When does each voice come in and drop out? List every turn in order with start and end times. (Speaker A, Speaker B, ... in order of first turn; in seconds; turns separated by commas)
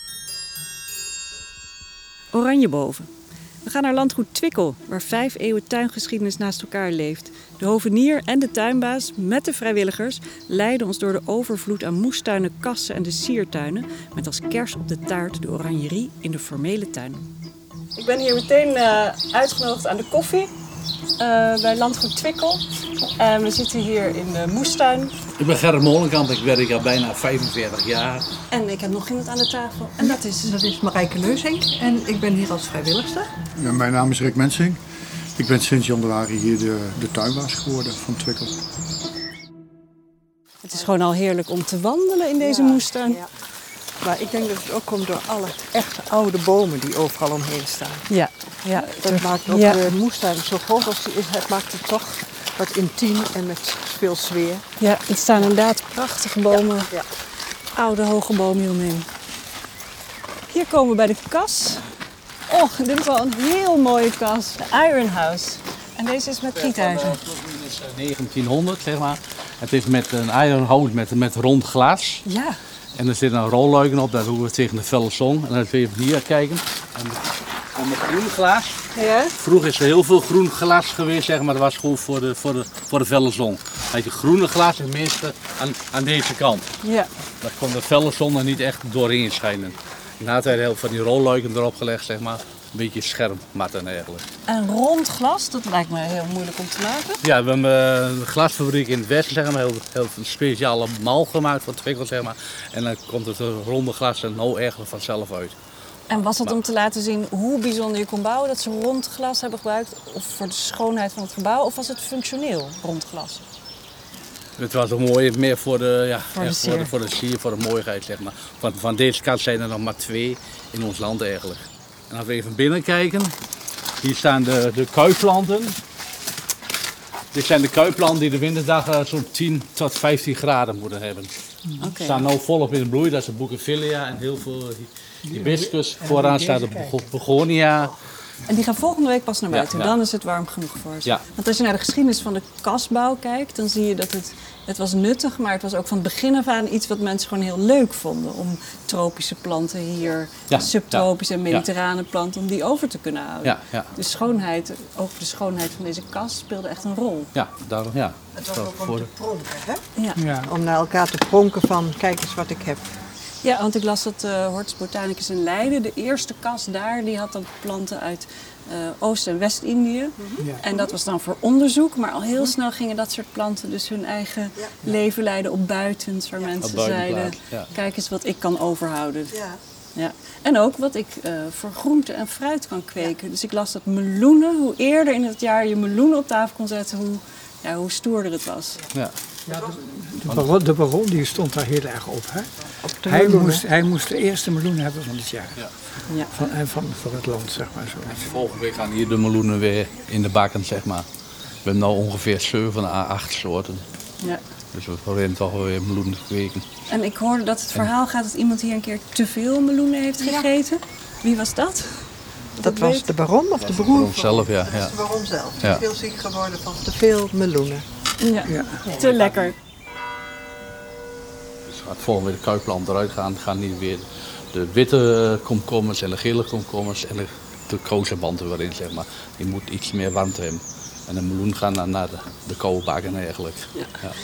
Speaker A: 2.3-3.1, Speaker A: 3.6-17.3, Speaker A: 17.9-20.5, Speaker A: 21.2-22.6, Speaker A: 23.1-25.1, Speaker B: 25.4-28.2, Speaker A: 28.5-30.6, Speaker C: 30.0-33.3, Speaker D: 33.6-34.8, Speaker D: 35.4-38.6, Speaker A: 40.6-43.2, Speaker C: 42.4-43.2, Speaker C: 44.0-48.0, Speaker A: 48.1-49.8, Speaker C: 48.7-54.6, Speaker A: 54.8-56.9, Speaker A: 57.8-59.1, Speaker A: 60.5-61.8, Speaker A: 62.5-67.2, Speaker B: 66.6-72.2, Speaker A: 72.2-72.6, Speaker B: 73.0-78.8, Speaker A: 78.9-79.3, Speaker B: 79.4-86.7, Speaker A: 86.8-87.1, Speaker B: 87.4-94.2, Speaker A: 94.5-97.2, Speaker B: 97.2-105.5, Speaker A: 106.1-113.4, Speaker B: 114.6-123.3, Speaker A: 116.3-116.9, Speaker B: 124.0-125.8, Speaker B: 127.3-131.3, Speaker A: 131.8-132.3, Speaker B: 131.9-137.9, Speaker E: 135.3-136.9, Speaker A: 138.4-157.3, Speaker B: 139.5-139.9, Speaker B: 150.5-151.6, Speaker B: 153.4-153.9, Speaker B: 157.3-159.1, Speaker C: 158.3-162.8, Speaker E: 160.2-160.5, Speaker A: 163.4-179.4, Speaker C: 170.2-170.5, Speaker C: 174.6-174.8, Speaker B: 176.6-177.7, Speaker C: 179.3-179.6, Speaker A: 179.9-188.8, Speaker E: 189.5-192.5, Speaker B: 190.2-190.5, Speaker C: 192.8-193.6, Speaker E: 193.0-195.6, Speaker E: 196.3-198.2, Speaker B: 198.0-201.0, Speaker B: 201.6-203.8, Speaker B: 204.7-206.6, Speaker A: 206.9-212.1, Speaker A: 212.6-213.1, Speaker C: 212.6-217.8, Speaker B: 213.6-214.9, Speaker A: 218.2-219.6, Speaker E: 218.5-218.8, Speaker B: 221.7-234.1